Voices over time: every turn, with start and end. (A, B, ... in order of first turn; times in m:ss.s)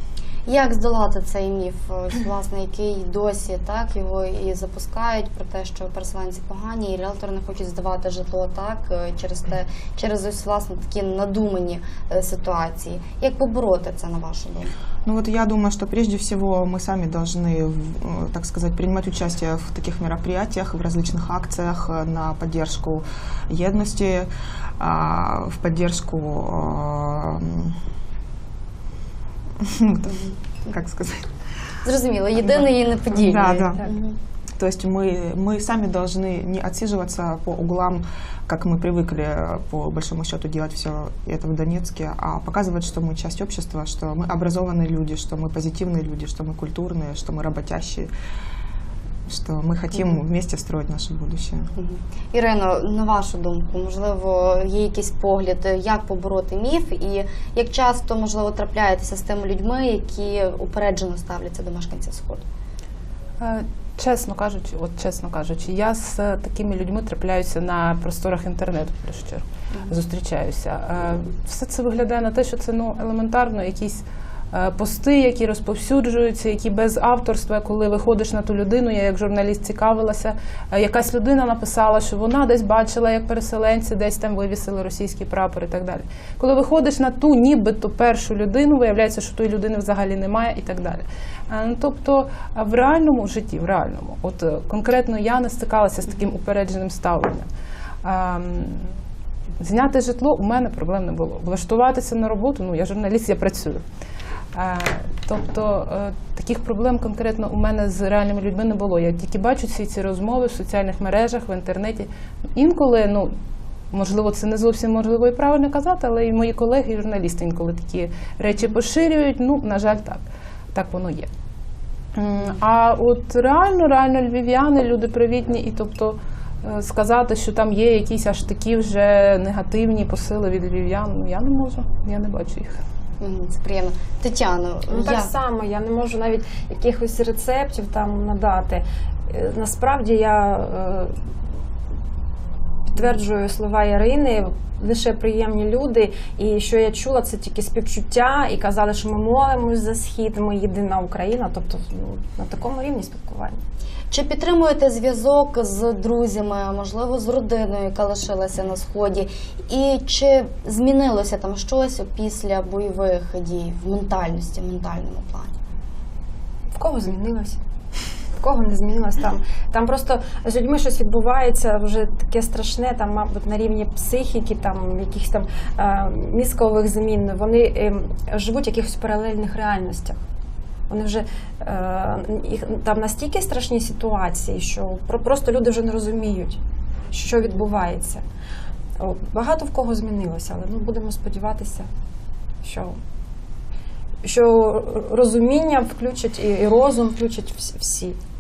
0:00.5-0:14.7 A
0:15.0-0:27.8 B
0:29.6-0:31.3 B
0:31.8-0:34.2 A
0:32.4-0:33.9 B
0:34.6-0:48.1 B
0:49.3-0:51.7 B
0:51.8-1:02.4 A
1:03.4-1:37.5 C
1:38.0-1:38.9 C
1:39.6-1:43.8 C
1:44.5-1:53.4 C
1:53.9-2:01.3 C
2:02.2-2:12.8 C
2:13.2-2:15.3 A
2:14.9-2:21.2 D
2:22.9-2:33.6 D
2:34.1-2:45.5 A
2:46.7-2:47.6 D
2:48.4-3:00.2 D
3:00.9-3:06.6 D
3:07.1-3:08.2 D
3:09.0-3:11.9 D
3:12.6-3:13.0 D
3:14.2-3:18.2 D